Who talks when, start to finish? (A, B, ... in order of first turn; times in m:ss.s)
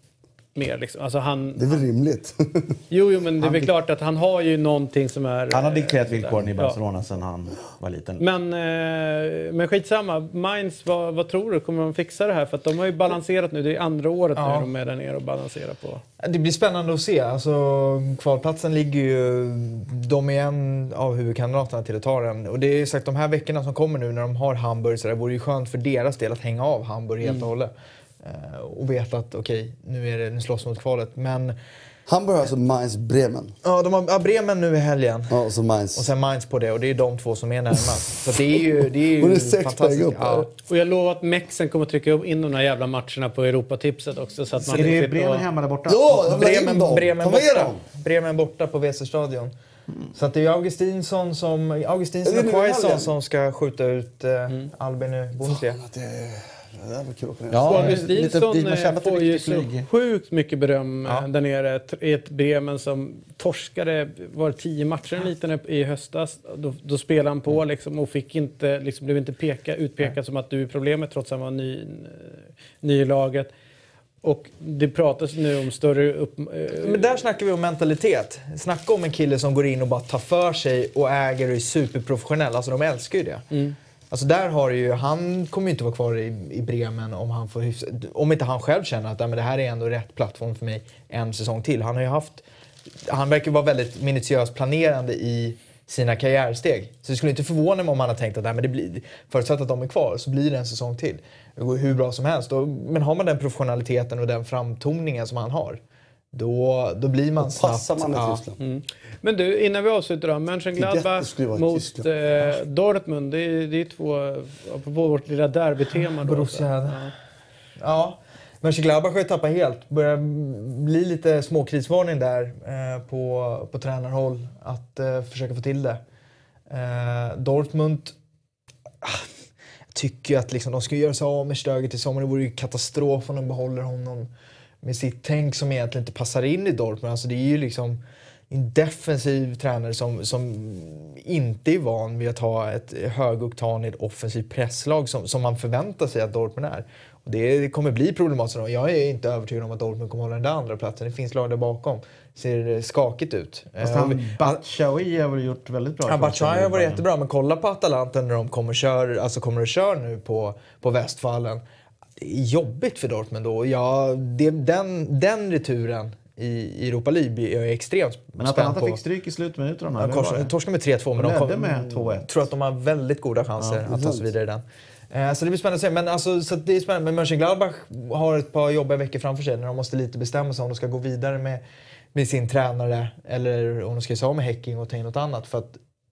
0:00.5-0:01.8 A
0:01.6-0:02.8 B
0:02.9-0:06.8 A
0:05.5-0:08.2 C
0:08.2-0:16.0 A
0:14.4-0:14.7 D
0:16.2-0:31.5 D
0:27.2-0:27.5 A
0:32.1-0:33.6 B
0:33.6-0:35.4 D
0:35.3-0:36.1 B
0:36.0-0:40.5 D
0:38.4-0:40.5 B
0:40.7-0:45.4 A
0:44.6-0:46.2 C
0:45.9-0:47.8 B
0:46.2-0:49.5 D
0:50.1-0:55.8 D
0:52.2-0:53.1 B
0:55.4-0:58.0 B
0:57.5-0:59.9 C
0:57.7-1:13.5 A
1:14.2-1:17.1 A
1:16.8-1:23.4 D
1:24.1-1:32.4 D
1:33.0-1:45.8 D
1:46.3-1:48.4 D
1:47.4-1:48.6 B
1:48.6-1:57.1 A
1:50.8-1:52.1 B
1:56.2-1:57.1 D
1:57.8-2:06.0 D
2:06.7-2:08.1 D
2:09.9-2:14.3 D
2:14.8-2:34.6 D
2:33.8-2:37.0 C
2:36.1-2:41.6 D
2:42.2-2:49.0 D
2:48.4-2:50.5 C
2:50.0-3:01.6 D
2:51.1-2:52.3 C
2:53.8-2:54.3 B
3:02.1-3:05.8 D